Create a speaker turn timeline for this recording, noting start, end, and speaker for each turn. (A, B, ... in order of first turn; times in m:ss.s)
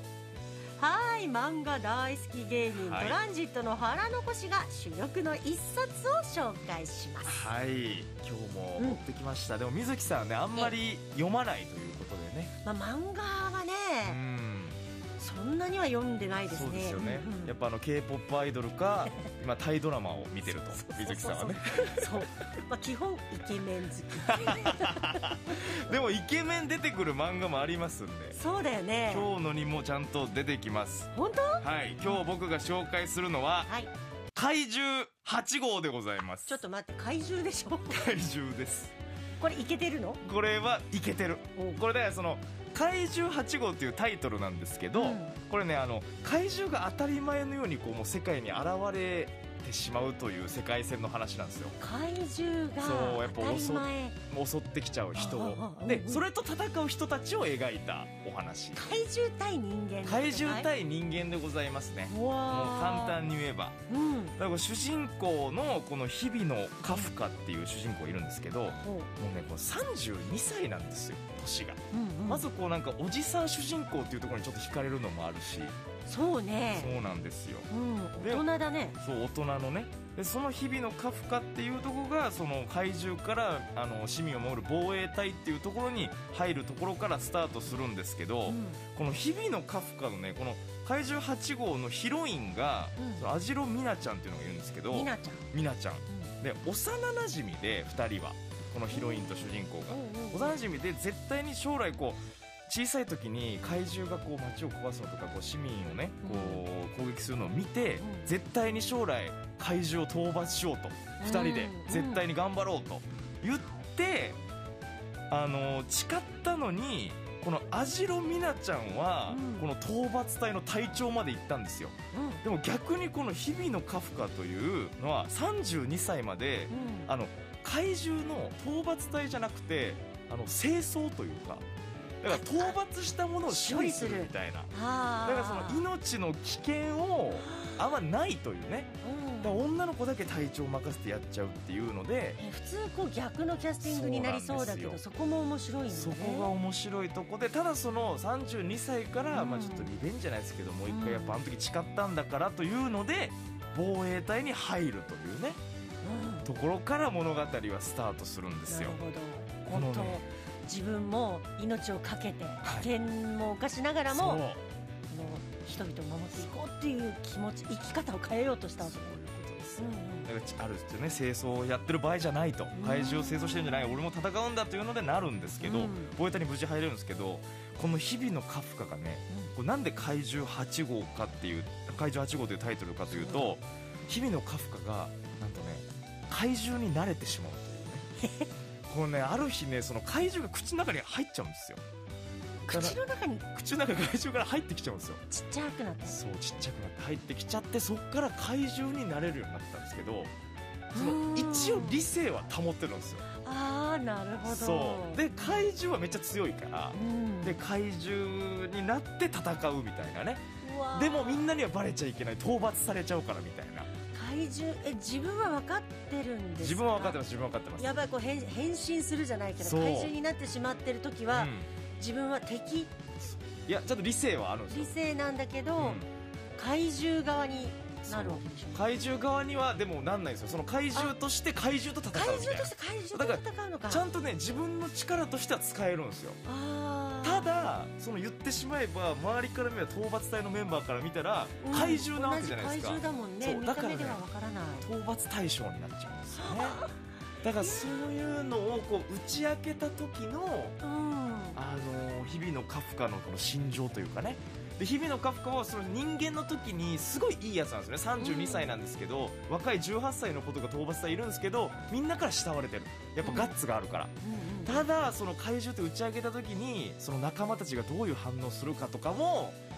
0:00.8-0:07.4 A
0:02.7-0:03.2 B
0:07.2-0:12.5 B
0:12.6-0:14.2 A
0:14.1-0:14.8 B
0:15.2-0:17.5 A
0:16.5-0:22.1 B
0:20.6-0:26.0 A
0:24.2-0:28.4 B
0:28.3-0:29.3 A
0:29.1-0:33.7 B
0:31.1-0:32.2 A
0:34.4-0:36.6 B
0:36.5-0:38.1 A
0:37.9-0:39.0 B
0:39.4-0:40.2 A
0:40.2-0:51.8 B
0:41.6-0:41.8 A
0:45.0-0:45.4 A
0:51.8-0:54.2 A
0:52.8-0:59.1 B
0:55.2-0:56.2 A
0:58.8-1:00.7 A
1:00.1-1:03.8 B
1:02.1-1:03.2 A
1:03.9-1:04.4 A
1:04.4-1:15.8 B
1:08.7-1:09.1 A
1:11.9-1:12.4 A
1:16.1-1:17.0 A
1:16.8-1:17.7 B
1:17.7-1:19.0 A
1:18.2-1:18.5 B
1:19.0-1:54.4 B
1:28.5-1:28.8 A
1:33.0-1:33.3 A
1:34.9-1:35.5 A
1:38.9-1:40.6 A
1:46.2-1:46.6 A
1:48.0-1:48.3 A
1:51.2-1:52.2 A
1:55.3-2:11.6 B
1:59.3-1:59.7 A
2:02.1-2:02.4 A
2:06.7-2:07.1 A
2:12.2-2:14.7 B
2:12.3-2:12.8 A
2:13.5-2:15.9 A
2:15.2-2:18.9 B
2:17.4-2:17.8 A
2:19.0-2:19.6 A
2:19.4-2:22.4 B
2:22.4-2:26.5 A
2:23.8-2:25.0 B
2:25.9-2:35.6 B
2:29.3-2:29.9 A
2:30.9-2:31.4 A
2:36.0-2:36.5 A
2:36.4-2:39.0 B
2:38.7-2:44.4 A
2:39.7-2:40.2 B
2:42.6-2:42.9 B
2:44.1-2:44.6 B
2:45.1-2:49.0 A
2:48.8-3:08.1 B
2:49.8-2:50.3 A
2:52.7-2:54.0 A
2:55.6-2:56.1 A
3:03.1-3:03.6 A
3:08.2-3:08.5 A
3:08.9-3:11.8 B
3:12.7-3:13.5 A
3:12.7-3:13.0 B
3:13.5-3:15.2 B
3:15.3-3:16.2 A
3:16.0-3:20.3 B
3:20.9-3:22.0 A
3:21.0-3:23.3 B
3:23.4-3:25.7 A
3:24.4-3:33.9 B
3:26.9-3:27.6 A
3:30.6-3:31.6 A
3:34.1-3:37.2 A
3:36.6-3:38.0 B
3:37.8-3:43.3 A
3:39.6-3:40.1 B
3:41.3-3:41.7 B
3:43.7-3:44.9 B
3:44.7-3:46.0 A
3:45.8-3:46.1 B
3:46.6-3:48.9 A
3:48.1-3:56.4 B
3:52.1-3:54.1 A
3:56.4-3:57.7 A
3:57.2-4:04.2 B
4:01.6-4:04.9 A
4:04.8-4:06.8 B
4:06.3-4:07.0 A
4:07.4-4:10.8 B
4:07.6-4:08.3 A
4:10.8-4:11.6 A
4:11.6-4:24.1 B
4:18.2-4:18.7 A
4:23.2-4:23.5 A
4:24.2-4:24.9 A
4:24.6-4:29.6 B